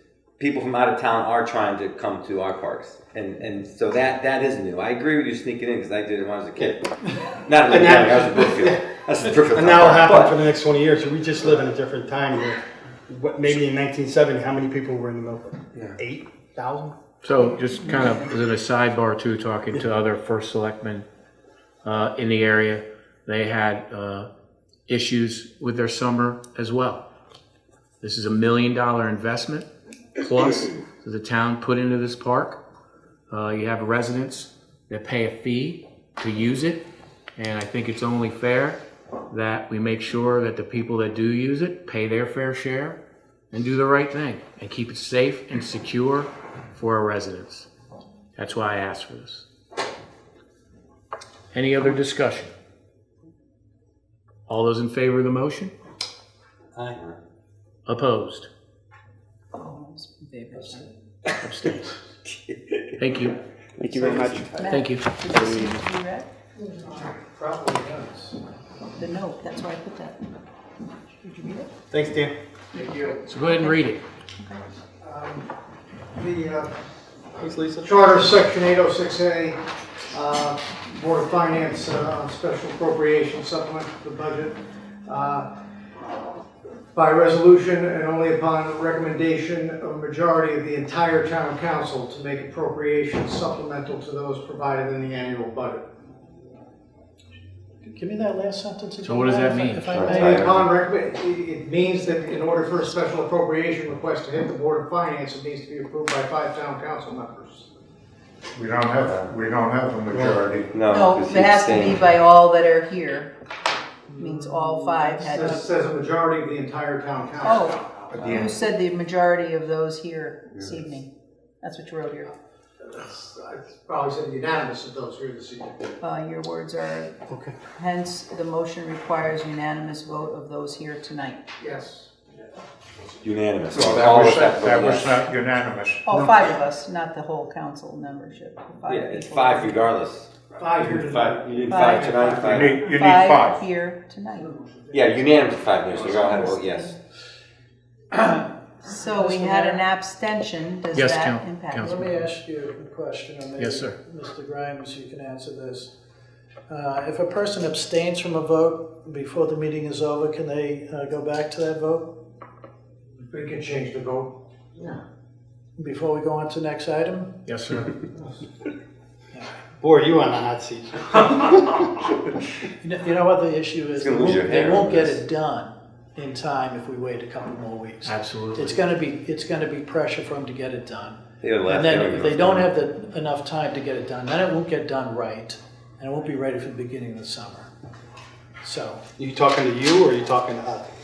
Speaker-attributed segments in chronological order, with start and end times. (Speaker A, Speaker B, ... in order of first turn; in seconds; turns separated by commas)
Speaker A: 0.4-10.4, Speaker B: 7.7-8.8, Speaker B: 9.4-17.0, Speaker C: 17.2-21.1, Speaker C: 21.8-24.3, Speaker C: 24.9-27.1, Speaker C: 28.0-29.7, Speaker C: 30.2-32.6, Speaker C: 33.3-36.8, Speaker C: 37.4-43.0, Speaker C: 43.5-47.7, Speaker C: 48.4-49.5, Speaker C: 51.5-52.5, Speaker C: 54.5-55.7, Speaker C: 57.9-58.5, Speaker D: 59.5-60.9, Speaker C: 61.4-61.9, Speaker A: 62.5-62.8, Speaker C: 63.0-63.4, Speaker D: 64.5-66.3, Speaker C: 64.7-65.1, Speaker E: 66.6-68.4, Speaker D: 69.0-70.2, Speaker D: 71.2-71.7, Speaker B: 71.9-72.3, Speaker D: 72.7-73.8, Speaker C: 73.2-74.0, Speaker E: 75.0-75.5, Speaker E: 76.2-76.8, Speaker B: 77.4-78.1, Speaker E: 77.8-79.6, Speaker E: 80.1-85.5, Speaker E: 86.9-95.8, Speaker F: 97.8-100.5, Speaker C: 99.0-100.2, Speaker A: 99.9-100.7, Speaker E: 100.0-107.7, Speaker G: 108.6-110.8, Speaker A: 110.7-112.1, Speaker D: 110.8-113.3, Speaker D: 114.1-115.7, Speaker F: 114.2-115.5, Speaker E: 115.3-117.7, Speaker D: 117.4-121.1, Speaker G: 118.1-118.6, Speaker D: 121.6-122.3, Speaker E: 122.8-126.0, Speaker D: 126.0-127.1, Speaker B: 127.3-127.5, Speaker D: 127.8-131.4, Speaker E: 131.6-132.1, Speaker A: 133.2-135.2, Speaker G: 133.7-136.0, Speaker D: 136.1-139.8, Speaker A: 138.9-142.8, Speaker E: 140.6-142.7, Speaker D: 141.7-142.1, Speaker G: 142.4-143.6, Speaker D: 142.7-144.5, Speaker A: 144.9-146.9, Speaker D: 148.8-151.9, Speaker F: 149.0-149.8, Speaker C: 150.9-152.3, Speaker F: 151.8-155.9, Speaker C: 153.6-154.0, Speaker F: 156.7-162.1, Speaker E: 163.2-165.0, Speaker F: 165.8-167.4, Speaker C: 167.5-168.0, Speaker B: 169.8-171.9, Speaker F: 172.8-187.7, Speaker A: 173.9-175.2, Speaker C: 178.1-178.8, Speaker A: 181.4-182.7, Speaker F: 188.6-189.0, Speaker B: 189.2-190.9